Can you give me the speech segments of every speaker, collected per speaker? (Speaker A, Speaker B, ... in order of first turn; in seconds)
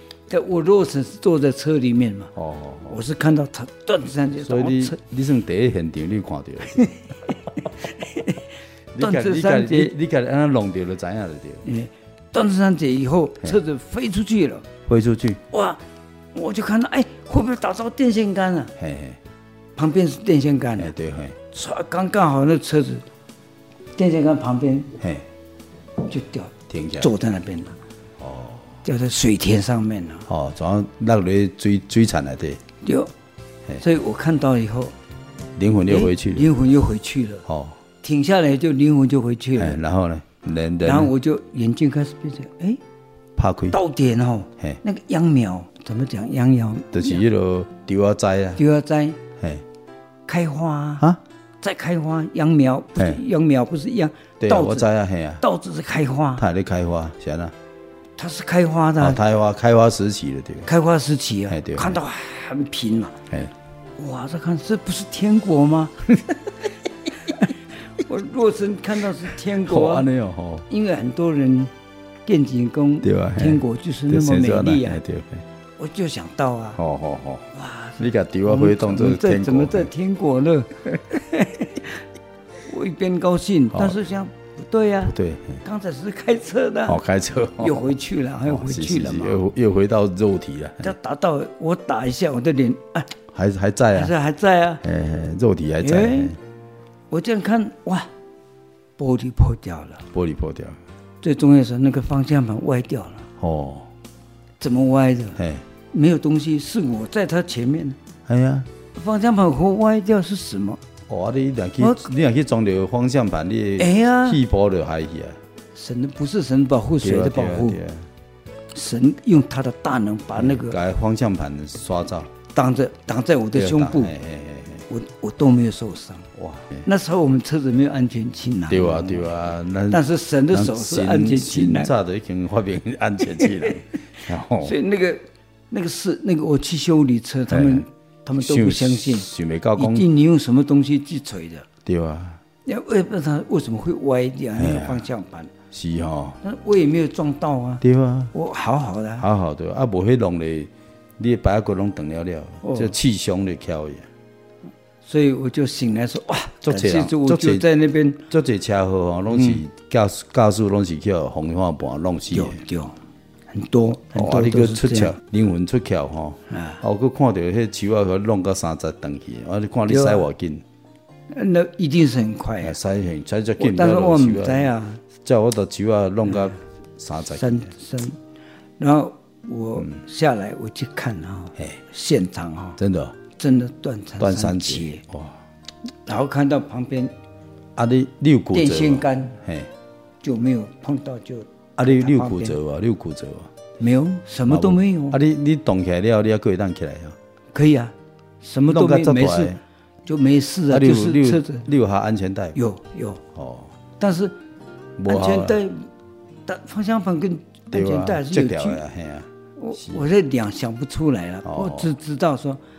Speaker A: 0.3-2.3, 2.9-5.0, 6.7-9.9, 11.7-14.7, 15.5-15.8, 16.3-18.7, 19.8-20.9, 21.5-23.1, 24.0-25.0, 26.1-27.8, 28.8-30.3, 32.8-33.1, 33.8-35.0, 35.9-37.5, 38.0-39.8, 40.8-42.8, 43.7-47.2, 48.6-49.2, 50.3-51.1, 51.6-54.9, 55.4-56.5, 58.2-59.2, 60.6-63.2, 64.0-66.1, 68.0-70.1, 70.7-71.7, 72.3-75.0, 75.8-76.8, 77.5-82.0, 82.6-87.0, 87.6-89.4, 90.8-93.1, 93.9-94.8, 95.8-96.3, 97.1-98.1, 99.0-100.0, 101.2-103.3, 104.6-105.4, 105.9-108.0, 108.9-110.8, 111.8-112.1, 113.8-114.4, 115.7-117.8, 118.7-120.8, 122.5-124.1, 124.9-126.3, 126.8-129.3, 129.9-131.9, 133.4-133.7, 134.6-141.7, 142.7-145.5, 146.4-149.3, 152.6-152.9, 155.0-158.2, 159.3-159.6, 162.3-163.0, 163.5-165.2, 166.5-166.8, 169.9-170.3, 171.3-172.8, 173.6-175.0, 177.3-178.2, 178.8-182.8, 183.3-185.0, 186.1-187.1, 188.5-189.4, 190.2-192.6, 193.8-195.2, 197.5-201.7, 202.6-203.2, 204.0-204.4, 205.1-205.9, 206.5-208.8, 209.6-212.6
Speaker B: 2.4-3.0, 4.4-6.9, 8.9-11.7, 14.9-15.4, 18.8-19.2, 20.8-21.4, 25.0-25.3, 26.7-27.1, 28.2-28.8, 30.3-32.6, 35.6-36.5, 37.5-37.8, 39.6-41.1, 43.4-43.8, 46.9-48.6, 49.4-49.6, 54.4-55.4, 56.4-57.5, 59.0-60.7, 61.5-62.0, 69.5-70.7, 73.0-75.4, 76.8-77.5, 78.0-79.9, 85.1-85.6, 86.9-87.9, 88.4-90.9, 93.3-94.1, 94.8-96.4, 100.1-100.8, 103.4-103.9, 105.4-105.7, 108.3-108.7, 111.1-115.4, 117.0-118.1, 120.4-122.3, 123.5-124.9, 126.4-126.9, 128.7-134.8, 137.5-140.1, 141.8-142.4, 144.6-145.0, 145.7-146.4, 147.8-148.3, 149.2-154.1, 156.6-157.7, 158.3-162.6, 164.1-170.6, 172.6-177.7, 182.8-183.2, 184.2-185.4, 187.8-189.7, 191.8-193.5, 194.5-197.2, 198.7-199.6, 200.7-202.6, 203.3-203.8, 205.0-205.6, 207.7-210.1, 211.4-211.9